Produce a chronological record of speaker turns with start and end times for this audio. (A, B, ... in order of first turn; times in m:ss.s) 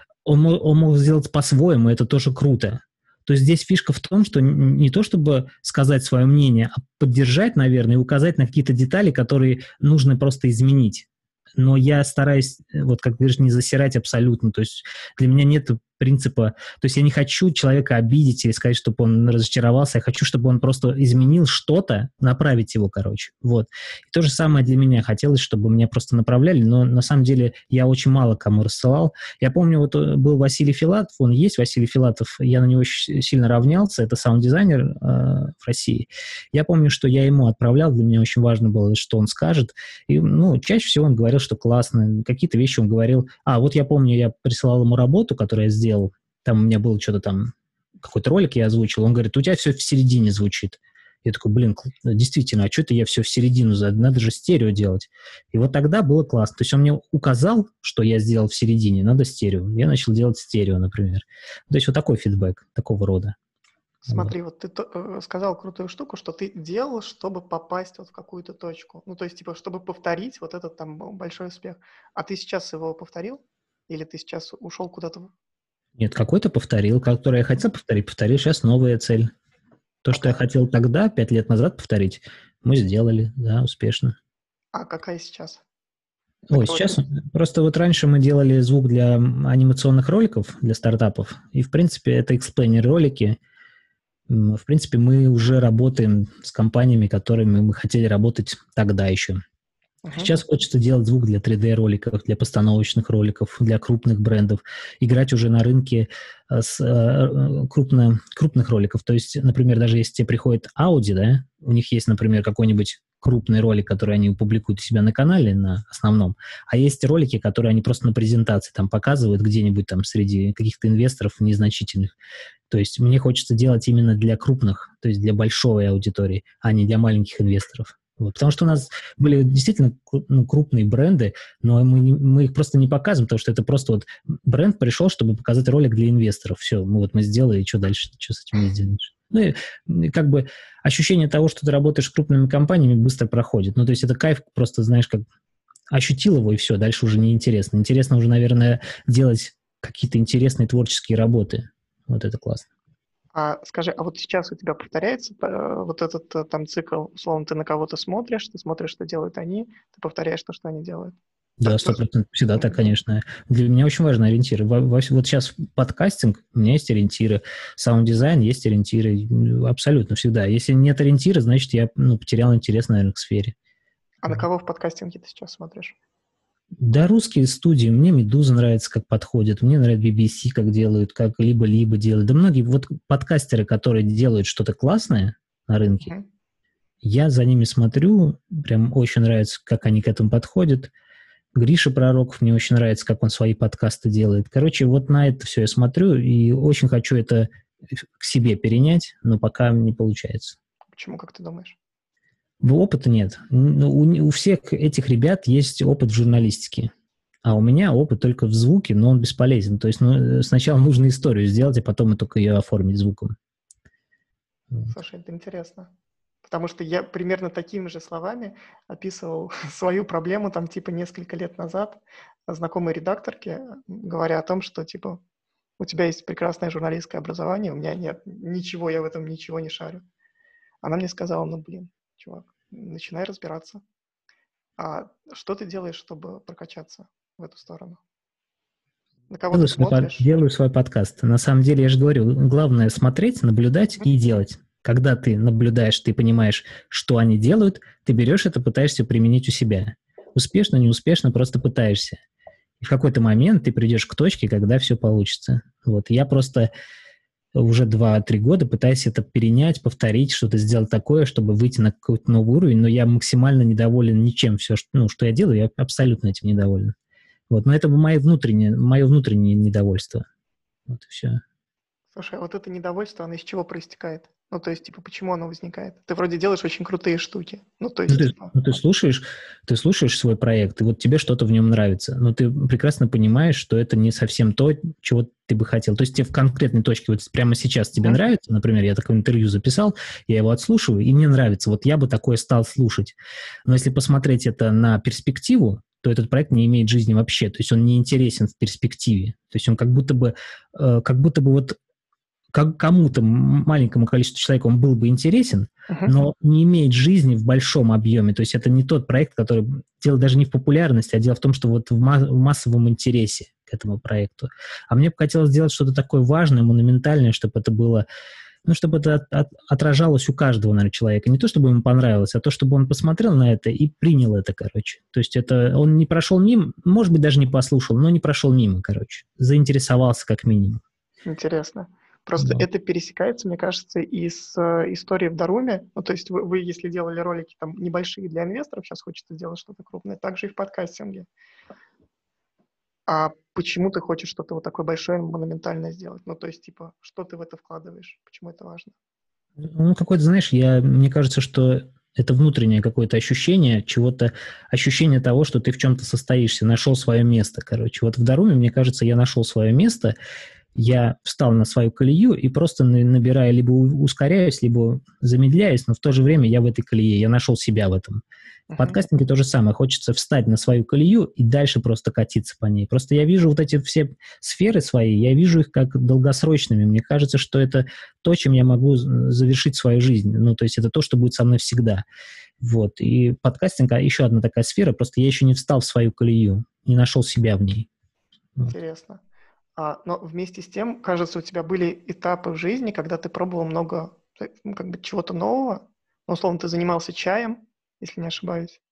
0:00.2-1:03.4 A
1:04.0-1:04.3 A
1:04.1-1:15.3 B
1:16.0-1:19.3 A
1:20.0-1:24.2 A
1:20.1-1:20.4 B
1:24.7-1:25.6 B
1:26.5-1:33.4 A
1:26.5-1:27.0 B
1:34.3-1:39.4 A
1:40.0-1:40.4 B
1:40.2-2:02.1 A
2:02.7-2:25.2 A
2:25.9-2:32.7 A
2:33.3-2:41.1 B
2:41.6-2:53.5 A
2:41.6-2:42.0 B
2:54.2-2:56.0 B
2:56.8-3:06.1 A
3:07.0-3:10.9 A
3:11.5-3:20.6 A
3:20.9-3:21.8 B
3:22.6-3:26.9 A
3:27.4-3:33.3 A
3:34.9-3:35.9 B
3:36.4-3:45.2 B
3:45.8-3:50.0 B
3:50.8-3:53.8 B
3:54.8-3:58.0 B
3:59.3-4:00.2 B
3:59.5-4:12.2 A
4:12.8-4:16.7 A
4:17.5-4:26.9 A
4:27.5-4:30.2 A
4:30.9-4:31.4 A
4:32.1-4:38.5 B
4:38.1-5:01.8 A
5:02.5-5:18.0 A
5:05.9-5:06.2 B
5:18.6-5:30.8 A
5:31.3-5:41.3 B
5:32.4-5:32.6 A
5:43.1-5:48.9 B
5:49.6-6:00.1 A
6:00.8-6:08.2 A
6:08.7-6:09.0 B
6:08.8-6:22.0 A
6:22.6-6:27.9 A
6:28.6-6:29.2 B
6:29.8-6:38.8 B